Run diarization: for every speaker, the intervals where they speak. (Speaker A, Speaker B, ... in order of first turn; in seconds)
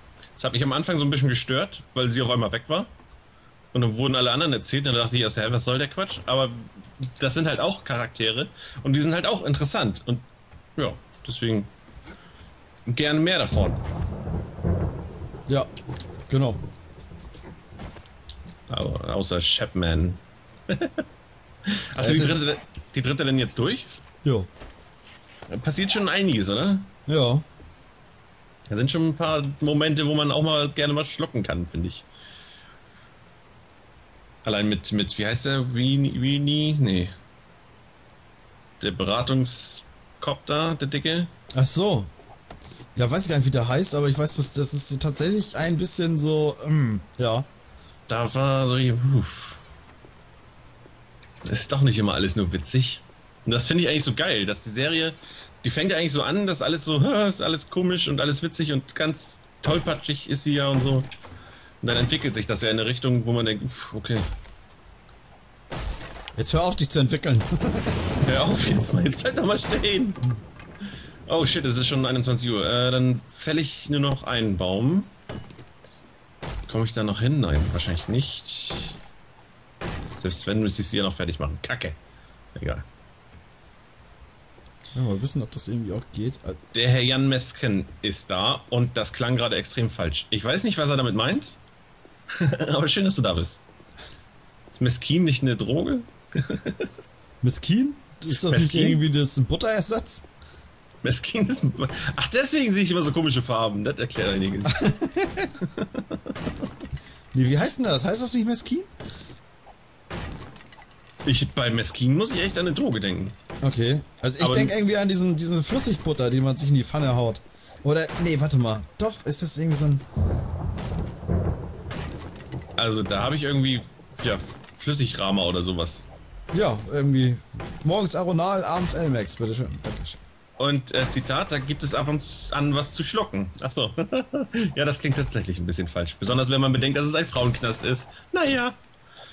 Speaker A: 0.4-2.9, 3.7-11.7, 12.9-13.8, 18.7-21.0, 21.7-23.9, 25.5-26.9, 28.7-32.1, 34.4-37.1, 38.8-41.3, 48.1-49.6, 51.4-61.1, 61.8-64.3, 68.2-70.2, 71.3-75.1, 76.7-79.0, 80.2-82.0, 82.5-82.8, 86.7-91.6, 92.3-93.6, 94.7-96.9, 98.3-99.0, 101.0-104.9, 105.6-106.3, 111.2-113.4, 114.4-114.7, 122.8-126.0, 130.6-138.8
Speaker B: 16.3-16.6, 22.0-22.4, 24.2-24.5, 27.1-27.4, 41.5-42.1, 42.9-47.5, 66.3-68.1, 84.9-86.6, 97.4-100.2, 104.7-105.5, 107.3-108.9, 113.6-120.0, 126.5-130.2